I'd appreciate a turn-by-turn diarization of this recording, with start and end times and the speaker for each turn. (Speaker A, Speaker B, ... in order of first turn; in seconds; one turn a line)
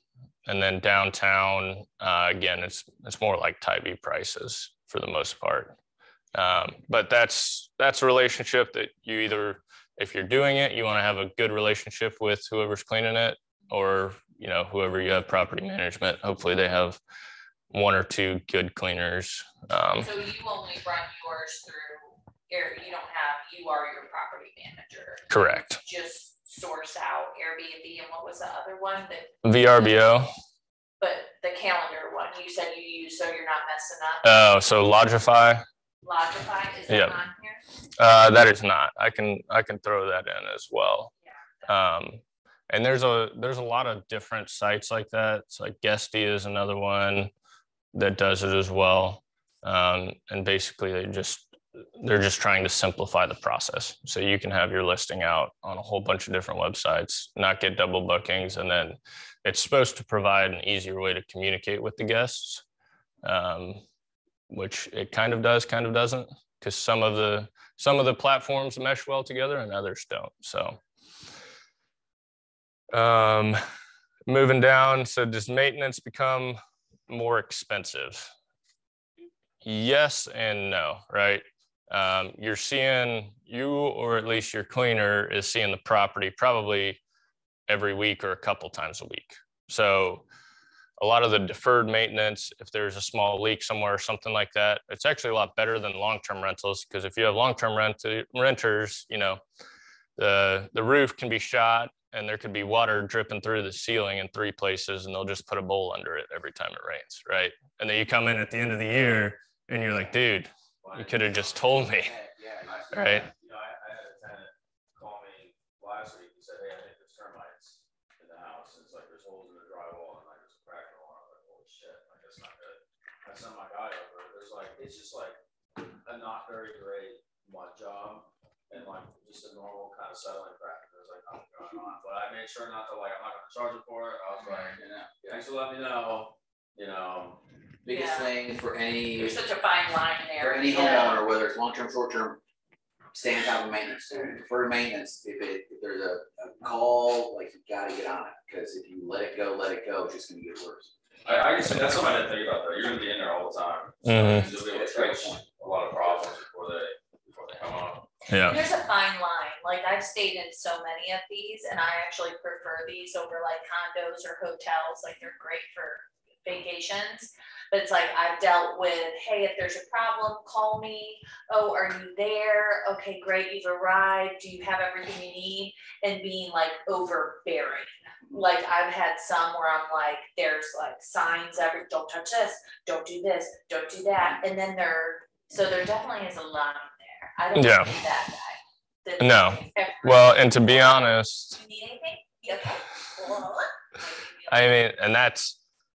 Speaker A: 0.5-5.7
Speaker A: 6.3-17.0
Speaker A: 17.7-20.1
Speaker B: 20.0-29.4
Speaker A: 25.3-25.8
Speaker A: 29.4-30.3
Speaker B: 31.0-34.2
Speaker A: 34.2-35.6
Speaker B: 36.0-37.6
Speaker A: 36.9-37.2
Speaker A: 38.0-41.1
Speaker B: 41.2-41.7
Speaker A: 41.6-47.3
Speaker A: 47.9-62.6
Speaker A: 63.2-63.8
Speaker A: 64.5-70.8
Speaker A: 72.9-73.6
Speaker A: 74.3-78.3
Speaker A: 79.6-87.0
Speaker A: 87.7-90.2
Speaker A: 91.0-99.4
Speaker A: 100.2-112.1
Speaker C: 110.8-111.8
Speaker D: 111.8-113.3
Speaker A: 112.9-113.3
Speaker C: 113.2-137.4
Speaker D: 134.8-135.1
Speaker D: 137.8-139.4
Speaker B: 137.9-138.3
Speaker B: 139.2-141.2
Speaker D: 140.4-142.4
Speaker D: 143.1-150.9
Speaker C: 151.2-158.1
Speaker A: 154.0-154.5
Speaker D: 154.2-156.3
Speaker A: 158.3-158.6
Speaker B: 158.4-194.7
Speaker A: 187.5-187.9
Speaker A: 189.2-191.6
Speaker A: 194.5-195.6